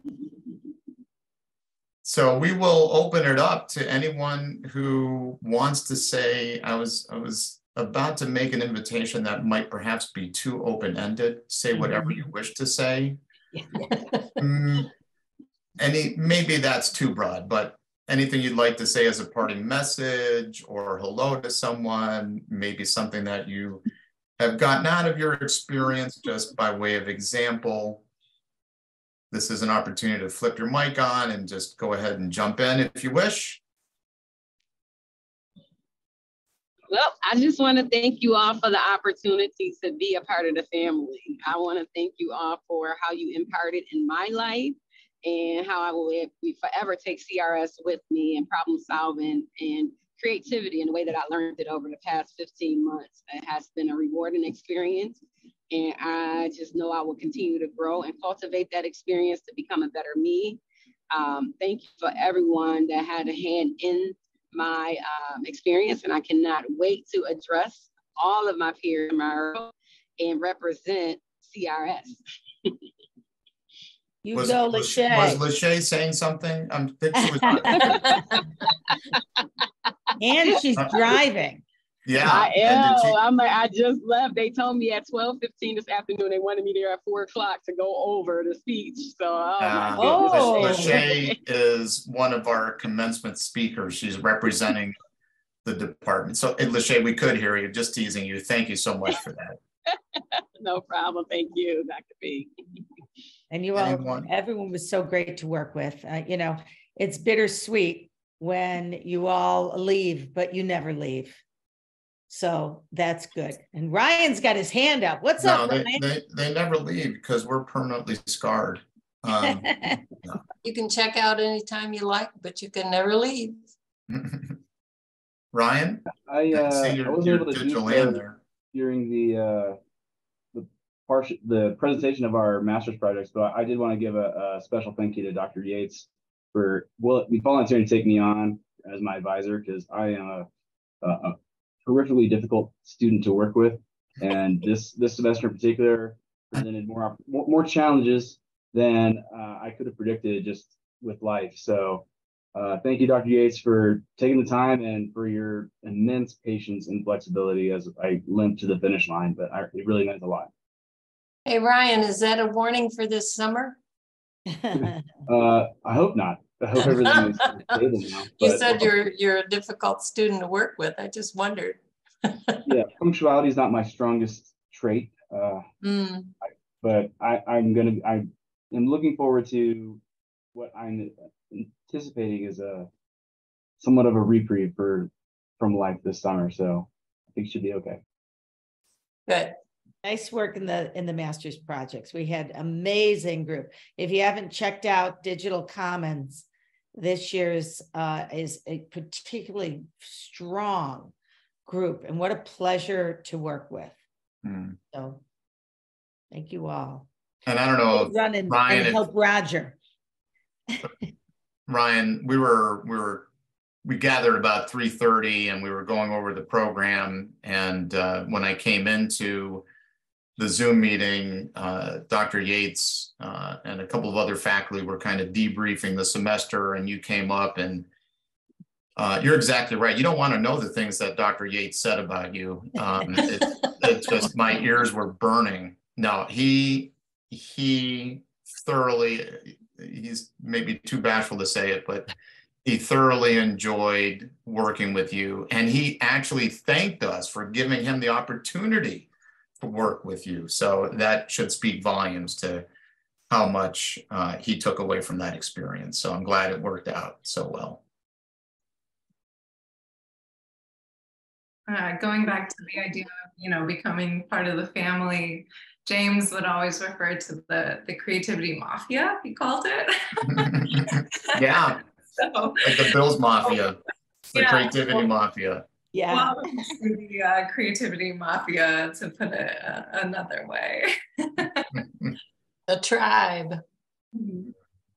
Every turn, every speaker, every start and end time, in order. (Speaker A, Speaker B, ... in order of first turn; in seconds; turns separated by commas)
Speaker A: 2.0-13.2, Speaker A: 14.4-14.9, Speaker A: 15.8-23.8, Speaker A: 24.4-28.0, Speaker A: 29.3-33.6, Speaker B: 36.9-60.6, Speaker B: 61.1-72.7, Speaker C: 74.2-75.4, Speaker A: 74.3-78.1, Speaker C: 77.5-78.2, Speaker B: 78.0-78.2, Speaker C: 80.2-81.6, Speaker A: 82.1-83.2, Speaker B: 82.2-91.4, Speaker A: 89.6-95.0, Speaker C: 90.0-91.0, Speaker A: 95.7-99.6, Speaker B: 100.2-102.5, Speaker C: 103.5-111.4, Speaker A: 103.8-104.3, Speaker C: 112.3-116.0, Speaker A: 115.4-119.7, Speaker C: 119.3-120.0, Speaker D: 120.6-123.6, Speaker A: 124.1-124.5, Speaker A: 125.5-128.4, Speaker E: 126.3-128.2, Speaker E: 128.7-129.8, Speaker E: 130.5-140.5, Speaker E: 141.0-160.5, Speaker D: 161.5-163.8, Speaker C: 164.5-164.9, Speaker E: 165.3-168.9, Speaker D: 166.8-167.8, Speaker D: 168.4-172.6, Speaker E: 172.7-175.6, Speaker D: 175.8-176.3, Speaker E: 176.8-180.0, Speaker E: 180.5-182.9, Speaker E: 183.8-188.0, Speaker D: 189.3-189.6, Speaker C: 190.0-201.1, Speaker C: 201.7-204.0, Speaker A: 204.4-204.8, Speaker C: 204.9-205.2, Speaker C: 206.3-207.1, Speaker A: 207.5-209.0, Speaker C: 207.9-209.8, Speaker A: 211.7-213.3, Speaker A: 213.8-219.7, Speaker A: 220.4-227.9, Speaker A: 229.0-242.1, Speaker A: 242.7-252.7, Speaker A: 253.3-257.8, Speaker F: 261.7-271.4, Speaker A: 270.3-271.8, Speaker F: 272.2-273.0, Speaker A: 272.6-273.8, Speaker A: 274.3-275.6, Speaker F: 274.3-275.1, Speaker C: 275.9-276.4, Speaker F: 276.1-281.7, Speaker D: 282.7-283.6, Speaker F: 284.2-284.5